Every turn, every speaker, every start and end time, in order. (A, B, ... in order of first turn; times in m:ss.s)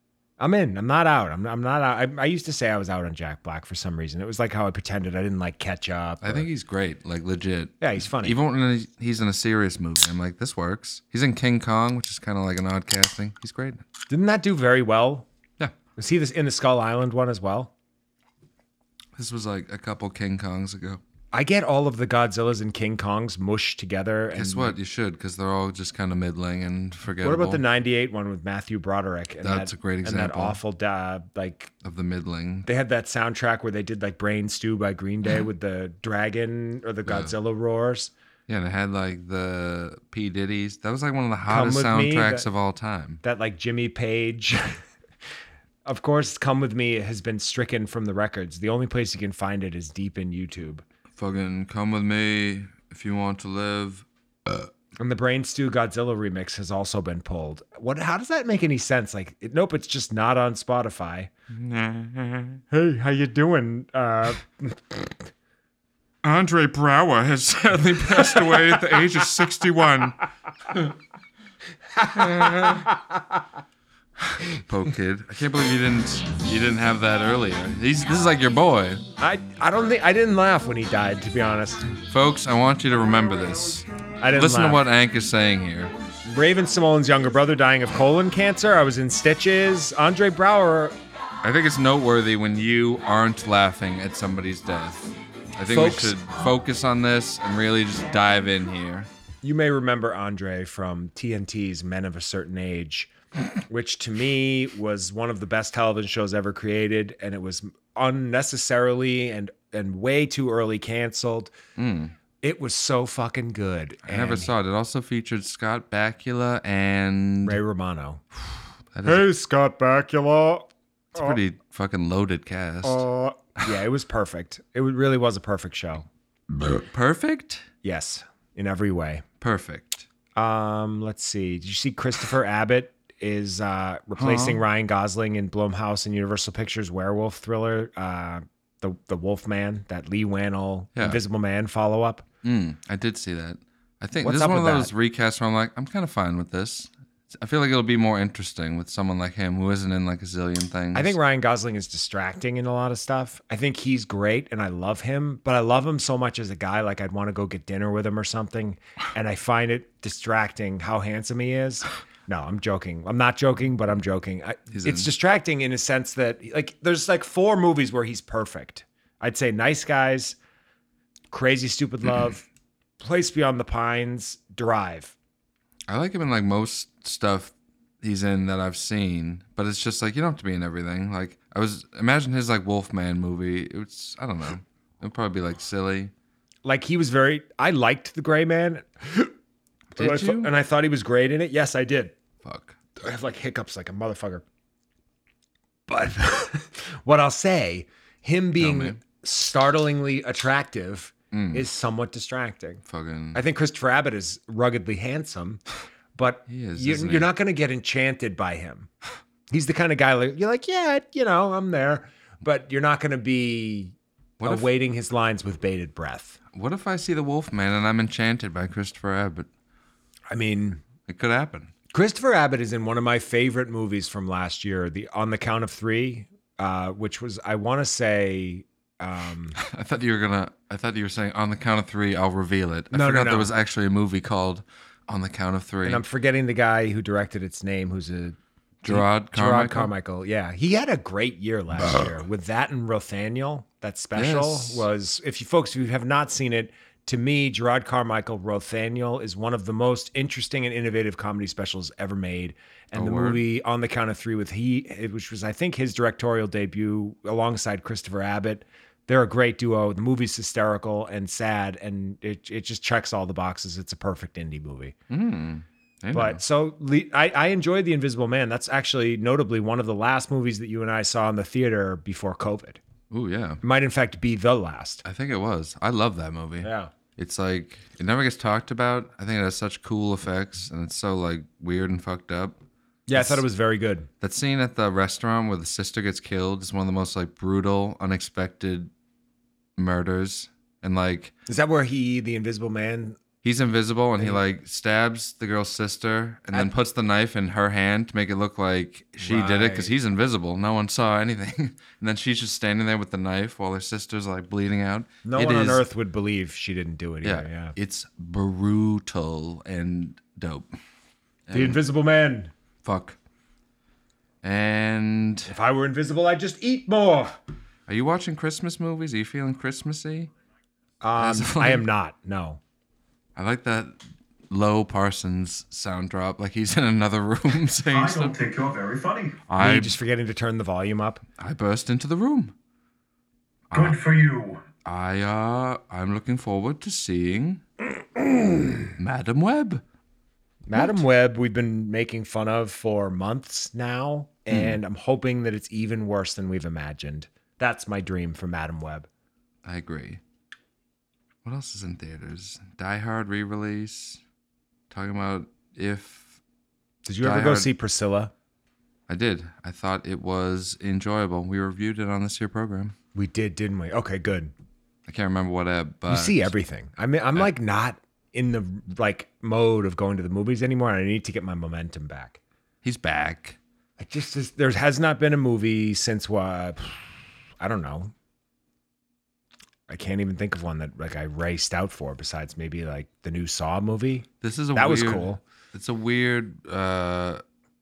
0:00.4-0:06.5 A
0:06.2-0:13.8 B
0:07.8-0:08.4 A
0:14.1-0:15.3 A
0:16.0-0:17.7 A
0:19.2-0:21.0 B
0:21.3-0:24.8 A
0:24.3-0:27.6 B
0:27.2-0:31.7 A
0:29.4-0:30.6 B
0:31.8-0:32.7 B
0:32.6-0:38.1 A
0:37.0-0:37.3 B
0:38.5-0:43.2 B
0:41.5-0:42.5 A
0:43.2-0:44.8 A
0:45.8-0:50.8 A
0:51.1-0:54.7 B
0:55.0-1:01.3 A
1:01.5-1:02.6 B
1:02.7-1:05.2 A
1:06.2-1:10.2 B
1:08.2-1:08.9 A
1:12.0-1:13.4 A
1:12.1-1:12.8 B
1:14.3-1:19.0 B
1:19.2-1:21.9 A
1:22.1-1:25.9 B
1:24.2-1:24.8 A
1:26.2-1:31.0 A
1:31.4-1:35.0 B
1:35.6-1:39.1 B
1:35.7-1:36.2 A
1:39.4-1:43.1 A
1:43.6-1:51.5 A
1:51.8-1:52.1 B
1:52.4-1:54.5 A
1:54.0-1:57.6 B
1:57.4-1:58.2 A
1:58.9-1:59.3 B
1:59.0-2:01.4 A
2:01.1-2:03.0 B
2:02.8-2:06.1 A
2:06.6-2:07.6 B
2:07.8-2:09.2 A
2:09.4-2:10.1 B
2:10.4-2:22.2 A
2:14.2-2:14.6 B
2:21.0-2:21.2 B
2:22.4-2:31.2 B
2:24.2-2:24.9 A
2:30.9-2:50.4 A
2:44.7-2:45.1 B
2:51.3-2:52.4 A
2:53.0-2:55.1 A
2:55.9-3:06.1 B
3:06.6-3:09.3 A
3:10.0-3:10.5 B
3:10.0-3:12.2 A
3:12.4-3:12.8 B
3:13.0-3:14.4 A
3:15.9-3:22.8 A
3:18.6-3:19.0 B
3:21.3-3:21.6 B
3:22.8-3:23.4 B
3:23.3-3:25.6 A
3:26.2-3:28.9 A
3:26.5-3:27.3 B
3:29.5-3:36.4 A
3:34.4-3:34.7 B
3:36.5-3:39.5 B
3:40.3-3:40.8 A
3:41.0-3:41.7 B
3:41.9-3:49.6 A
3:49.6-3:56.0 B
3:52.9-3:53.5 A
3:55.8-4:24.9 A
3:58.8-3:59.9 B
4:04.1-4:04.9 B
4:12.9-4:13.4 B
4:25.1-4:26.4 B
4:26.1-4:32.8 A
4:33.1-4:33.6 B
4:33.6-4:35.0 A
4:35.0-4:42.6 B
4:36.6-4:36.9 A
4:43.1-4:44.1 A
4:43.1-4:43.4 B
4:44.2-4:48.9 B
4:49.8-4:51.3 B
4:51.5-4:53.2 A
4:53.4-5:05.8 B
4:59.2-4:59.9 A
5:05.2-5:07.7 A
5:07.2-5:10.7 B
5:11.5-5:11.8 B
5:11.5-5:12.5 A
5:12.8-5:13.2 B
5:14.4-5:15.5 B
5:15.5-5:17.4 A
5:17.9-5:20.3 B
5:21.0-5:22.6 A
5:21.2-5:21.8 B
5:23.4-5:24.0 B
5:24.5-5:28.3 B
5:27.8-5:29.4 C
5:29.5-5:30.0 B
5:29.6-5:31.2 A
5:31.4-5:32.5 B
5:33.7-5:34.0 B
5:33.7-5:34.6 C
5:34.8-5:37.6 B
5:38.2-5:38.9 A
5:39.0-5:39.8 B
5:40.7-5:49.1 A
5:40.7-5:41.0 B
5:44.5-5:44.8 B
5:49.6-5:50.2 B
5:51.4-5:54.2 B
5:54.9-5:56.4 B
5:57.0-5:58.3 A
5:57.2-5:57.7 B
5:59.1-6:03.0 B
6:03.1-6:04.5 A
6:05.0-6:06.5 B
6:06.1-6:12.4 A
6:12.8-6:13.6 B
6:14.0-6:17.1 A
6:17.6-6:18.1 A
6:19.9-6:25.4 A
6:24.4-6:27.4 B